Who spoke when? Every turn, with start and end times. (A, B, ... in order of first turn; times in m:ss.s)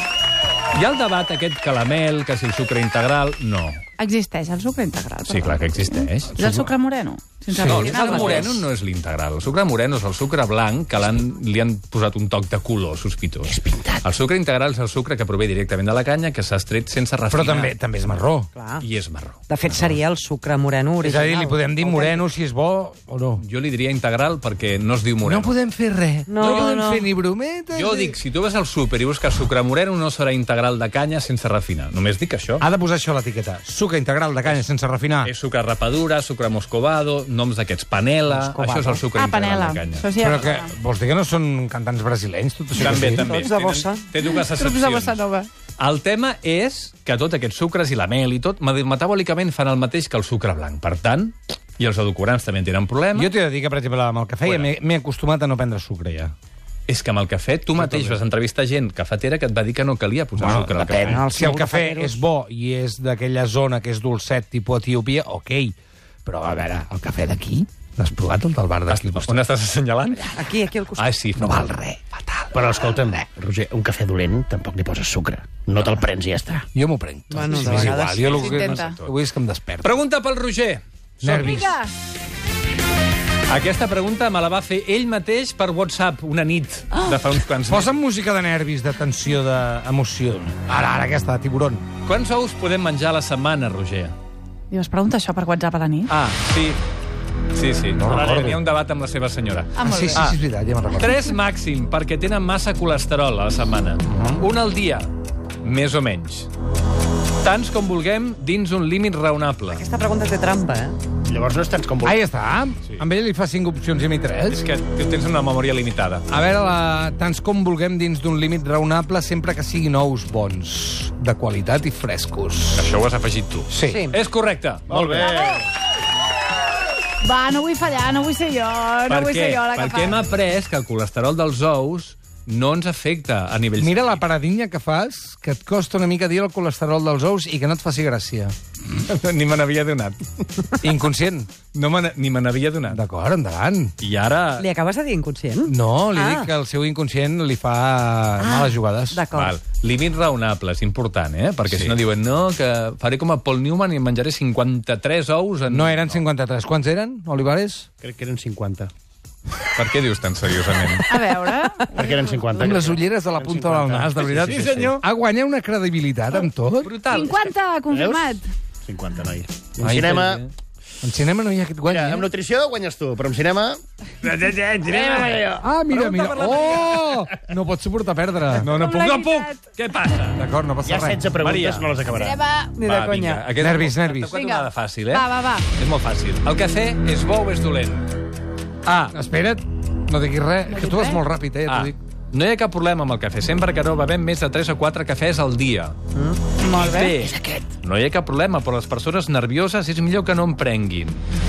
0:00.7-0:03.8 A
0:04.0-0:08.6 B
0:05.3-0:06.4 A
0:06.4-0:06.7 C
0:07.5-0:08.2 C
0:07.6-0:17.8 A
0:17.3-0:18.5 C
0:18.6-0:18.8 D
0:18.8-0:19.8 A
0:19.5-0:22.2 D
0:21.0-0:23.4 C
0:23.4-0:25.5 A
0:25.2-0:28.2 C
0:26.3-0:27.1 D
0:26.4-0:26.7 A
0:27.7-0:32.6 A
0:32.6-0:35.3 C
0:35.2-0:40.1 A
0:38.3-0:39.0 D
0:39.1-0:40.7 B
0:40.2-0:43.4 C
0:42.8-0:45.2 A
0:42.8-0:44.1 D
0:44.3-0:45.5 B
0:45.8-0:53.3 A
0:53.2-0:56.3 C
0:54.4-0:54.7 A
0:56.9-1:01.3 A
1:00.4-1:09.5 C
1:01.0-1:02.2 D
1:08.9-1:10.4 A
1:10.3-1:11.0 D
1:11.0-1:11.7 A
1:11.4-1:13.2 C
1:12.5-1:16.7 E
1:16.7-1:20.0 C
1:17.3-1:18.3 D
1:17.5-1:19.1 A
1:18.3-1:19.0 B
1:19.8-1:21.6 A
1:21.2-1:21.8 C
1:21.4-1:21.9 B
1:23.5-1:28.0 A
1:27.7-1:31.9 C
1:32.0-1:34.2 A
1:34.7-1:36.1 B
1:36.1-1:36.8 A
1:37.5-1:40.4 A
1:37.9-1:38.6 C
1:39.8-1:40.3 B
1:39.8-1:41.3 C
1:41.0-1:45.1 A
1:44.1-1:44.4 C
1:45.6-1:46.5 A
1:47.4-1:49.8 A
1:49.7-1:51.0 D
1:51.2-1:52.2 E
1:52.0-1:54.7 C
1:54.5-1:56.3 A
1:56.3-2:02.9 C
2:02.8-2:05.3 A
2:03.7-2:04.1 C
2:03.8-2:04.2 D
2:04.9-2:05.7 E
2:05.3-2:05.5 B
2:07.2-2:10.2 B
2:09.1-2:14.2 A
2:13.8-2:18.5 C
2:19.0-2:20.2 A
2:20.8-2:21.5 C
2:21.7-2:23.0 A
2:22.9-2:23.9 C
2:24.0-2:24.7 A
2:24.6-2:26.5 D
2:25.7-2:29.2 C
2:28.4-2:29.6 D
2:29.3-2:36.2 A
2:31.7-2:32.0 C
2:35.7-2:37.9 C
2:38.0-2:38.9 E
2:39.7-2:41.2 A
2:41.1-2:42.4 B
2:41.9-2:44.9 E
2:42.5-2:46.9 C
2:44.2-2:45.0 A
2:46.8-2:47.5 A
2:47.1-2:48.5 B
2:47.9-2:50.4 E
2:49.8-2:50.5 A
2:51.0-2:52.3 C
2:51.9-2:53.8 E
2:54.2-2:58.8 C
2:54.8-2:55.7 E
2:55.9-2:57.0 A
2:56.3-2:56.8 E
2:58.6-3:00.4 A
2:58.7-2:59.6 B
3:00.4-3:01.3 C
3:00.8-3:02.4 E
3:01.4-3:02.0 A
3:02.1-3:02.8 B
3:02.8-3:03.5 D
3:02.8-3:08.1 A
3:03.6-3:04.4 C
3:04.3-3:05.7 B
3:08.9-3:09.1 A
3:09.1-3:12.0 C
3:10.7-3:11.2 B
3:11.7-3:16.0 A
3:16.1-3:16.4 D
3:16.6-3:17.2 B
3:16.7-3:21.2 A
3:17.2-3:17.7 E